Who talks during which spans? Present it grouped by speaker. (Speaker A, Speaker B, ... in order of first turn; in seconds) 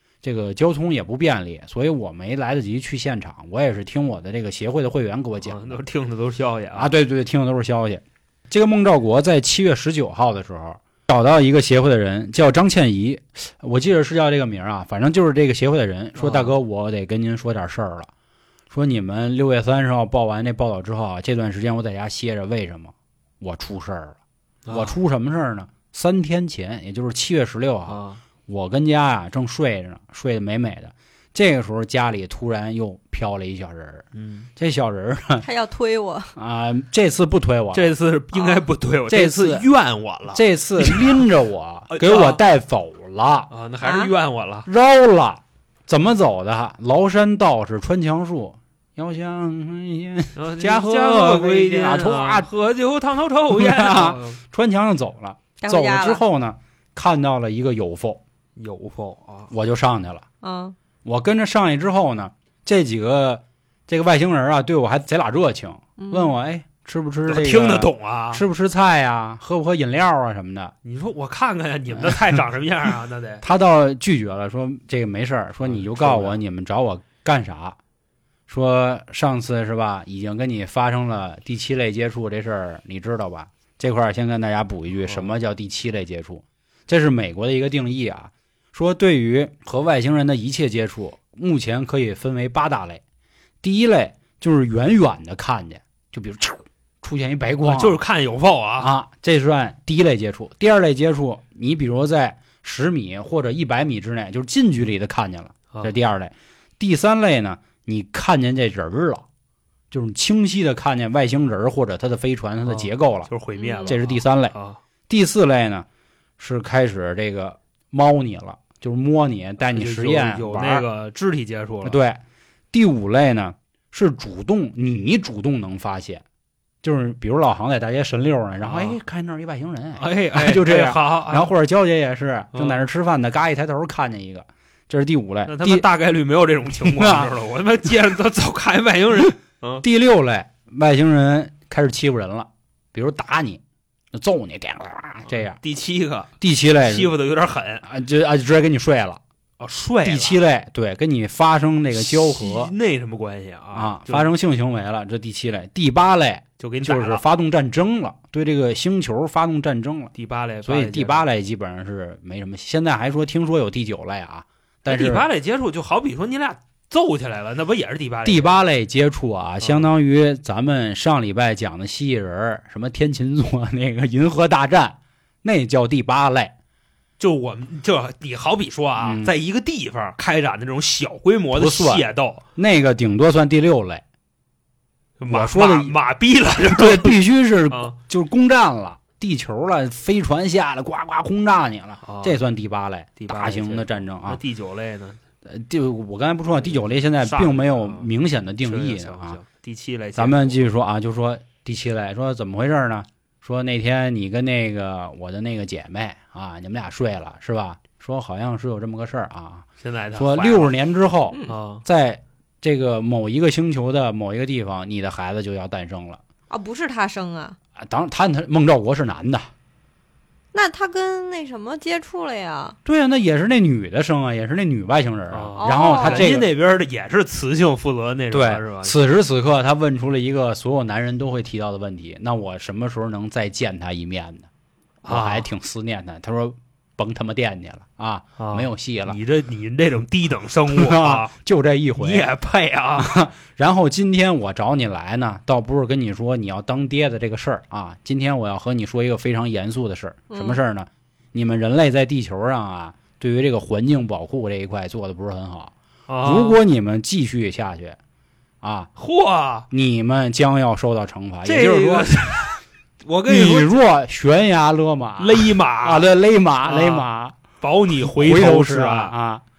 Speaker A: 0.2-5.8, 6.7-18.1, 18.7-24.2, 24.7-35.5, 36.4-37.9, 39.1-39.7, 40.3-43.5, 44.7-52.5, 53.5-58.2, 59.5-60.2, 61.0-70.7, 73.4-77.8, 78.5-93.0, 93.6-98.0, 98.8-109.2, 109.9-113.3, 113.9-114.5, 115.1-115.9, 116.4-120.9, 121.8-122.2, 122.7-126.2, 126.8-135.9, 136.8-137.3, 139.8-143.6, 144.1-145.6, 146.4-147.1, 147.8-149.2, 150.0-152.7, 153.7-160.1, 160.6-165.3, 168.2-176.5, 179.0-179.3, 181.5-182.1, 182.6-184.0, 185.3-185.9, 186.6-194.4, 195.4-199.4, 200.2-216.2, 217.8-219.5, 222.8-226.5, 228.3-234.5, 235.1-239.2, 240.7-242.3, 243.0-258.0, 258.6-258.9, 259.7-262.1, 263.3-267.4, 268.1-269.4
Speaker B: 5.4-6.9, 16.2-16.6, 24.6-25.0, 27.9-28.2, 34.1-34.5, 37.7-41.3, 41.9-42.4, 43.5-44.7, 50.4-54.4, 58.6-59.5, 67.3-68.4, 70.8-73.4, 75.6-76.4, 85.0-85.3, 97.6-98.9, 112.7-114.8, 119.6-122.0, 128.6-129.0, 130.0-131.5, 132.5-132.8, 135.5-139.8, 145.3-147.8, 149.6-150.4, 151.9-154.3, 156.6-157.2, 160.1-161.3, 164.9-168.6, 169.6-169.9, 177.2-182.4, 185.2-187.2, 187.7-188.0, 192.0-192.4, 193.2-195.2, 197.2-198.1, 198.6-200.6, 209.8-210.7, 211.5-211.8, 225.3-229.0, 235.0-235.5, 238.4-241.3, 242.0-243.1, 256.1-256.6, 259.0-259.7, 261.4-263.8, 265.2-266.1, 266.6-267.1, 267.6-269.1
Speaker C: 35.4-36.3, 38.4-38.6, 43.8-44.1, 55.6-56.2, 60.4-60.8, 66.0-66.3, 113.5-114.0, 216.5-217.6, 220.5-222.8, 225.6-226.3, 250.3-250.6